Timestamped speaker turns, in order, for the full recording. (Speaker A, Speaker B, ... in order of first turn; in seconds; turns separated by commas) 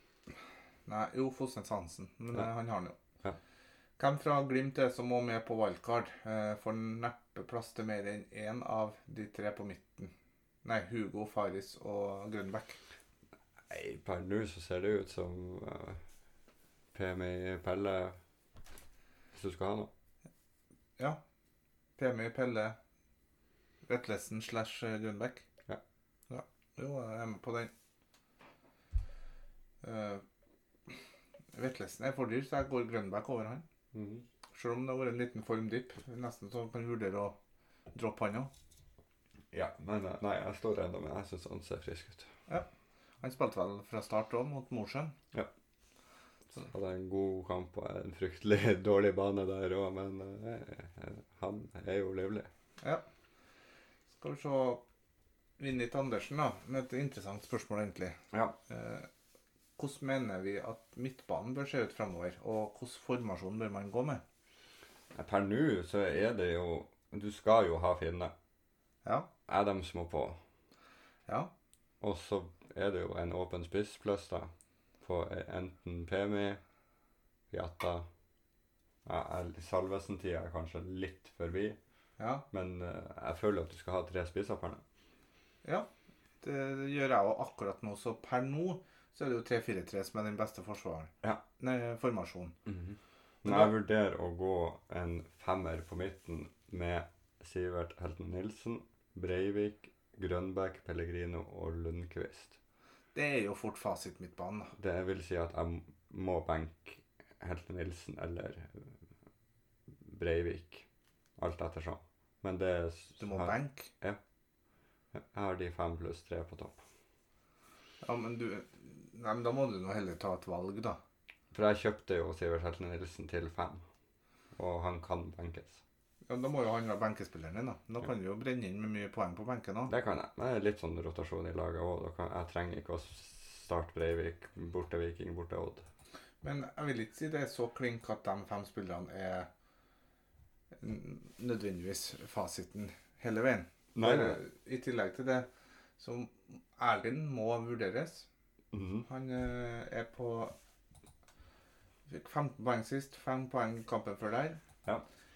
Speaker A: 0.9-3.0, Speaker A: 4.0-10.1, Speaker A: 10.6-12.8, Speaker B: 13.7-16.0, Speaker B: 16.9-18.2, Speaker B: 19.3-19.9, Speaker A: 22.0-22.8, Speaker A: 23.9-25.4, Speaker A: 26.3-27.7, Speaker A: 29.8-30.2, Speaker A: 31.5-33.6, Speaker B: 33.9-34.3, Speaker A: 34.5-37.4, Speaker A: 37.9-38.5, Speaker B: 39.5-42.3, Speaker A: 43.2-45.2, Speaker B: 46.5-52.5, Speaker A: 54.2-54.8, Speaker A: 55.6-59.1, Speaker A: 59.8-64.2, Speaker B: 65.1-68.3, Speaker B: 69.5-70.4, Speaker B: 72.0-74.5, Speaker B: 75.0-76.6, Speaker B: 77.5-78.1, Speaker B: 79.0-81.8, Speaker A: 82.2-82.5, Speaker B: 82.5-84.8, Speaker A: 86.4-92.5, Speaker B: 92.7-102.6, Speaker A: 93.5-93.7, Speaker A: 103.2-104.7, Speaker B: 104.8-109.0, Speaker B: 110.0-110.9, Speaker B: 111.4-114.2, Speaker A: 113.2-113.9, Speaker B: 115.1-116.8, Speaker A: 118.0-121.0, Speaker B: 121.5-123.8, Speaker B: 124.5-125.8, Speaker A: 126.3-129.9, Speaker B: 129.9-135.8, Speaker A: 136.4-139.5, Speaker A: 140.8-145.5, Speaker B: 143.9-144.4, Speaker A: 146.0-148.3, Speaker B: 148.7-149.1, Speaker A: 149.1-150.5, Speaker A: 152.1-154.6